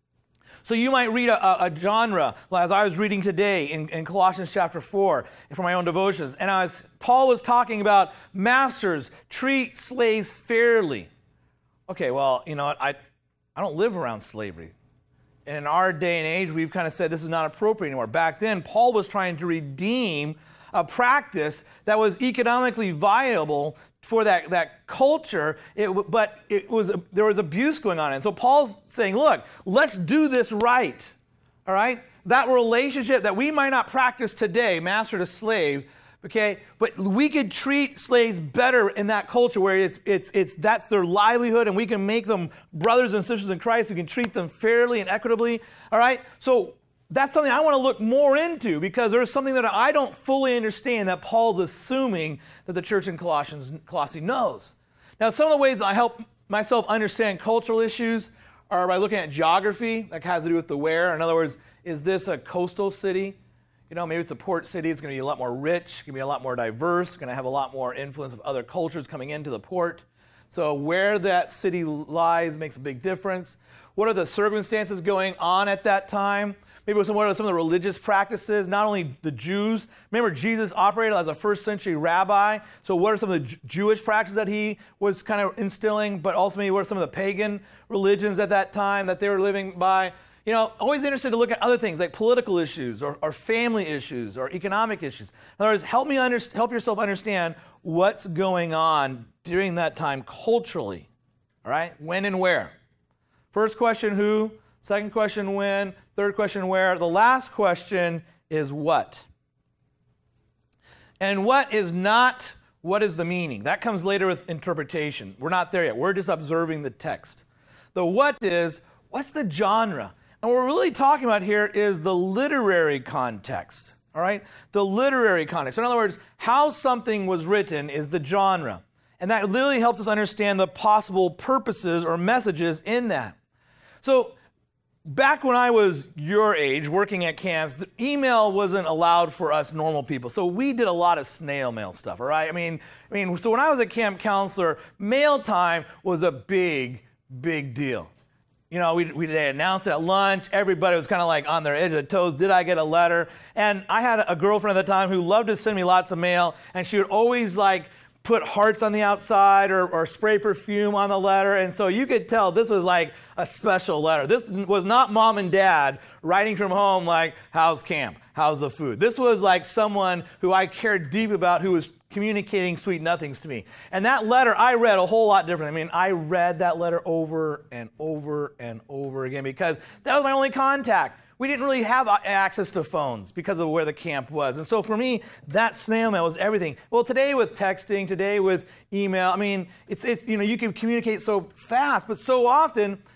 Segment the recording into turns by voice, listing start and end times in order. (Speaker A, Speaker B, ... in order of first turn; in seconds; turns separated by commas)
Speaker A: 0.6-11.1, Speaker A: 11.9-13.0, Speaker A: 13.6-14.7, Speaker A: 15.5-31.1, Speaker A: 31.7-63.4, Speaker A: 63.9-101.1, Speaker A: 101.7-102.8, Speaker A: 103.5-109.3, Speaker A: 111.2-117.4, Speaker A: 118.0-133.4, Speaker A: 134.0-134.3, Speaker A: 135.0-148.1, Speaker A: 148.7-193.0